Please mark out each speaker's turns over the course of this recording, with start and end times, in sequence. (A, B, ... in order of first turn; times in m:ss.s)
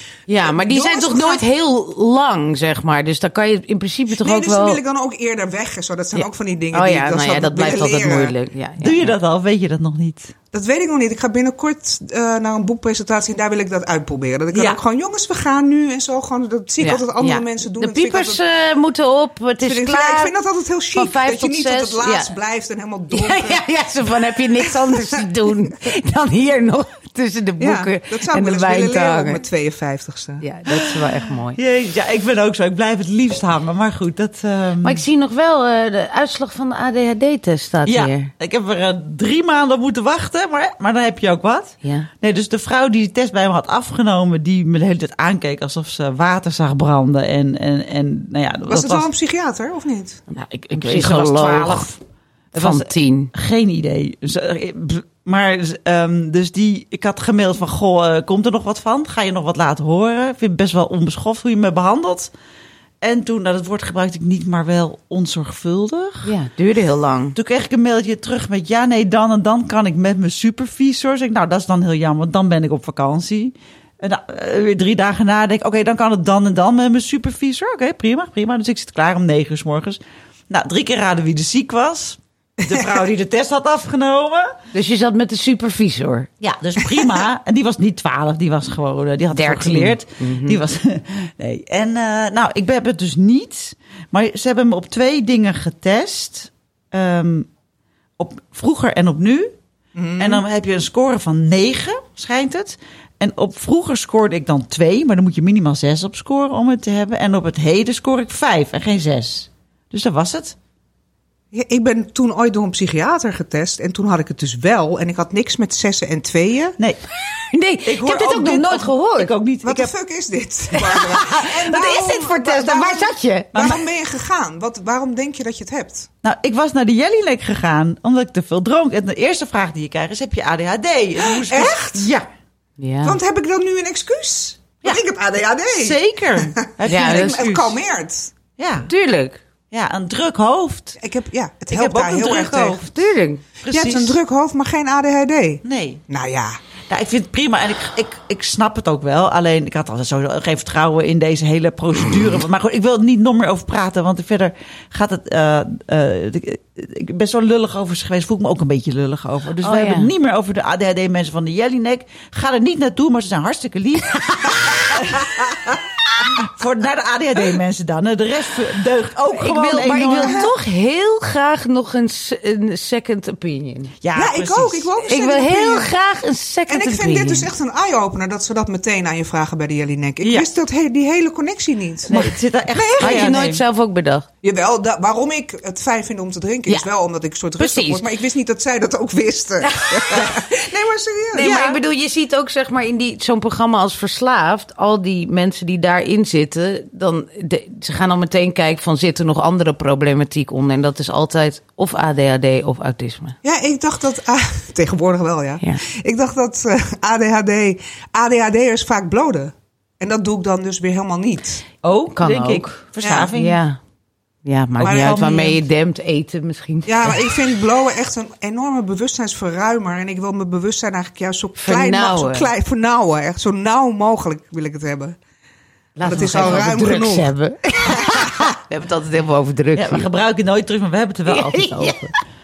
0:00.3-0:04.8 A
0:00.4-0:01.4 B
0:04.2-0:08.4 B
0:06.2-0:09.2 A
0:08.8-0:10.3 C
0:10.5-0:18.4 B
0:14.5-0:14.8 C
0:16.8-0:20.3 A
0:19.6-0:23.7 B
0:21.0-0:22.3 A
0:23.1-0:29.4 A
0:24.6-0:25.2 B
0:27.6-0:30.4 B
0:30.4-0:31.6 A
0:31.6-0:35.0 C
0:34.8-0:38.3 A
0:37.8-0:49.1 C
0:41.8-0:42.1 A
0:48.7-0:50.2 B
0:50.3-0:51.9 A
0:50.8-0:52.0 C
0:52.5-1:02.3 C
0:52.5-0:53.3 A
1:03.0-1:06.3 C
1:06.2-1:07.4 A
1:07.4-1:24.6 C
1:24.7-1:26.3 A
1:26.4-1:37.5 C
1:29.3-1:30.6 A
1:38.2-1:39.6 C
1:40.0-1:40.4 B
1:40.2-1:50.6 C
1:51.5-1:56.8 B
1:57.5-1:59.3 A
1:57.8-1:59.9 C
1:59.6-2:06.1 B
2:00.7-2:03.5 A
2:03.5-2:03.8 C
2:06.2-2:12.3 C
2:11.2-2:12.1 B
2:12.8-2:13.2 A
2:13.0-2:18.3 B
2:15.8-2:17.6 C
2:16.9-2:17.7 A
2:18.6-2:18.9 C
2:18.9-2:19.4 A
2:19.7-2:21.0 C
2:21.0-2:22.8 B
2:21.7-2:22.9 C
2:22.7-2:23.4 A
2:23.6-2:24.2 C
2:23.7-2:26.6 B
2:25.6-2:26.0 C
2:26.9-2:45.4 C
2:39.6-2:40.1 A
2:46.3-2:50.5 C
2:49.3-2:53.9 A
2:54.0-2:54.9 C
2:54.2-2:55.9 B
2:55.0-2:57.5 A
2:56.7-3:03.3 B
3:00.2-3:00.5 C
3:02.1-3:03.6 C
3:03.0-3:04.3 A
3:04.4-3:11.6 B
3:07.6-3:08.1 A
3:09.6-3:10.3 A
3:11.3-3:23.4 A
3:11.4-3:11.8 C
3:23.4-3:31.6 B
3:31.8-3:33.6 C
3:32.1-3:33.8 A
3:33.0-3:33.3 B
3:34.4-3:37.4 A
3:34.8-3:35.6 C
3:34.9-3:35.2 B
3:36.9-3:45.2 B
3:41.6-3:42.5 A
3:46.0-3:50.1 A
3:46.0-3:46.8 C
3:46.1-3:47.3 B
3:47.9-3:48.3 B
3:49.8-3:52.1 C
3:51.3-3:52.1 A